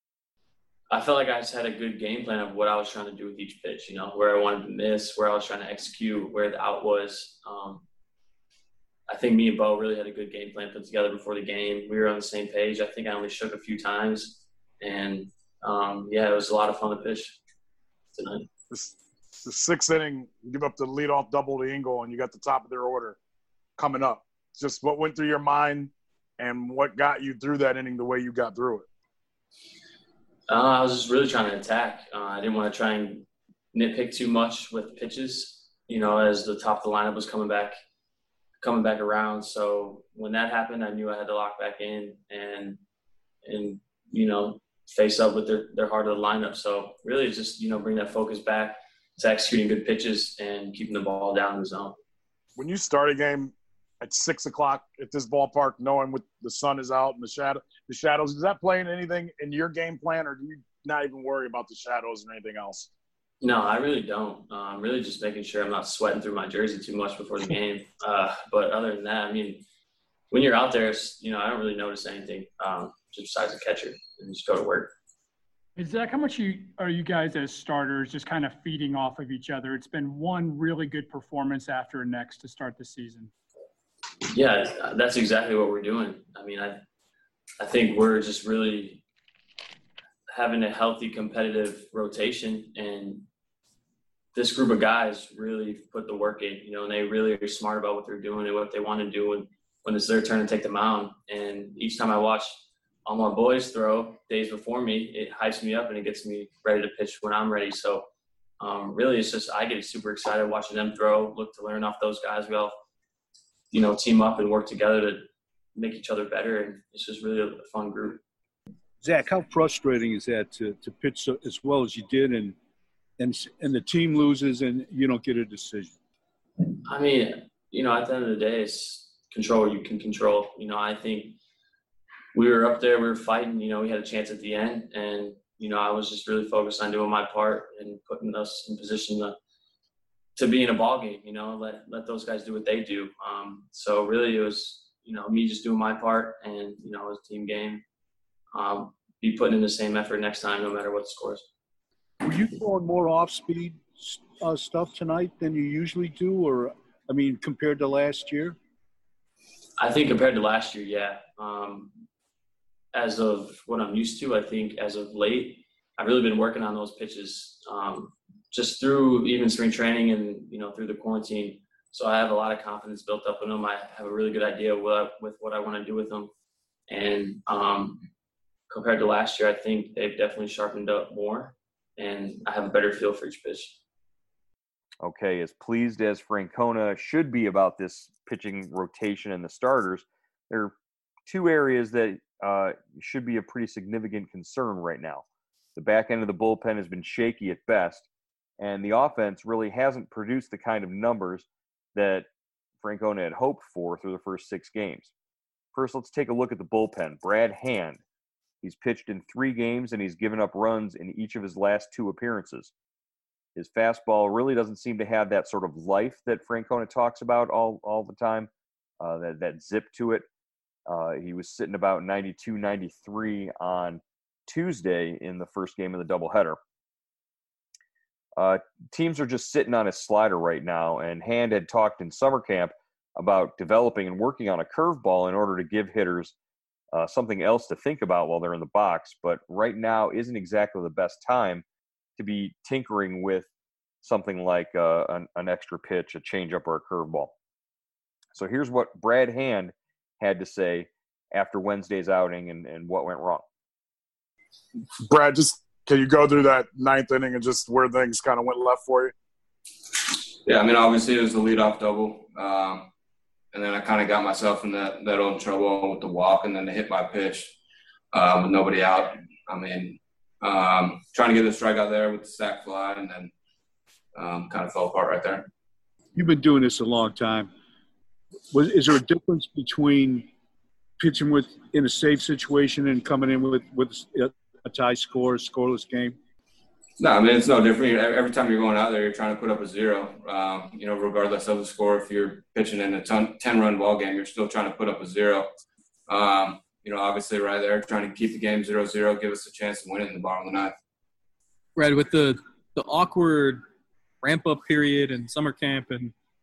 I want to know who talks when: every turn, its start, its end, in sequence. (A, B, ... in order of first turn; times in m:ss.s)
0:00.9-0:07.8 A
0:09.1-0:17.4 A
0:18.2-0:18.5 A
0:18.7-0:23.2 B
0:23.8-0:28.9 B
0:30.5-0:37.8 A
0:38.6-0:42.8 A
0:43.4-0:52.0 A
0:52.6-1:02.9 B
1:03.4-1:09.6 A
1:10.3-1:14.9 A
1:15.8-1:23.3 C
1:24.3-1:26.8 A
1:27.6-1:29.0 A
1:30.3-1:33.3 A
1:34.3-1:48.1 A
1:48.6-1:52.8 A
1:53.7-1:58.2 A
1:59.0-2:02.6 D
2:03.2-2:06.0 D
2:06.8-2:11.4 A
2:12.3-2:19.4 A
2:20.4-2:27.8 A
2:28.5-2:31.5 A
2:32.2-2:38.6 D
2:39.8-2:41.9 A
2:42.9-2:56.3 A
2:56.9-2:58.1 A
2:58.7-3:03.8 A
3:05.0-3:15.2 E
3:15.8-3:18.1 E
3:18.6-3:22.3 E
3:22.8-3:25.1 E
3:25.7-3:28.0 E
3:28.6-3:32.7 E
3:33.6-3:38.5 E
3:39.0-3:40.3 E
3:40.9-3:46.6 E
3:48.4-3:56.4 E
3:56.9-4:01.6 E
4:02.2-4:03.5 E
4:04.0-4:07.3 E
4:08.3-4:13.4 E
4:15.0-4:19.1 B
4:20.4-4:22.9 F
4:23.5-4:27.5 F
4:28.1-4:33.3 F
4:34.2-4:35.5 F
4:36.2-4:37.5 D
4:38.5-4:40.3 D
4:41.0-4:46.2 D
4:47.0-4:55.5 F
4:56.1-5:00.8 F
5:01.8-5:03.6 G
5:04.2-5:06.1 G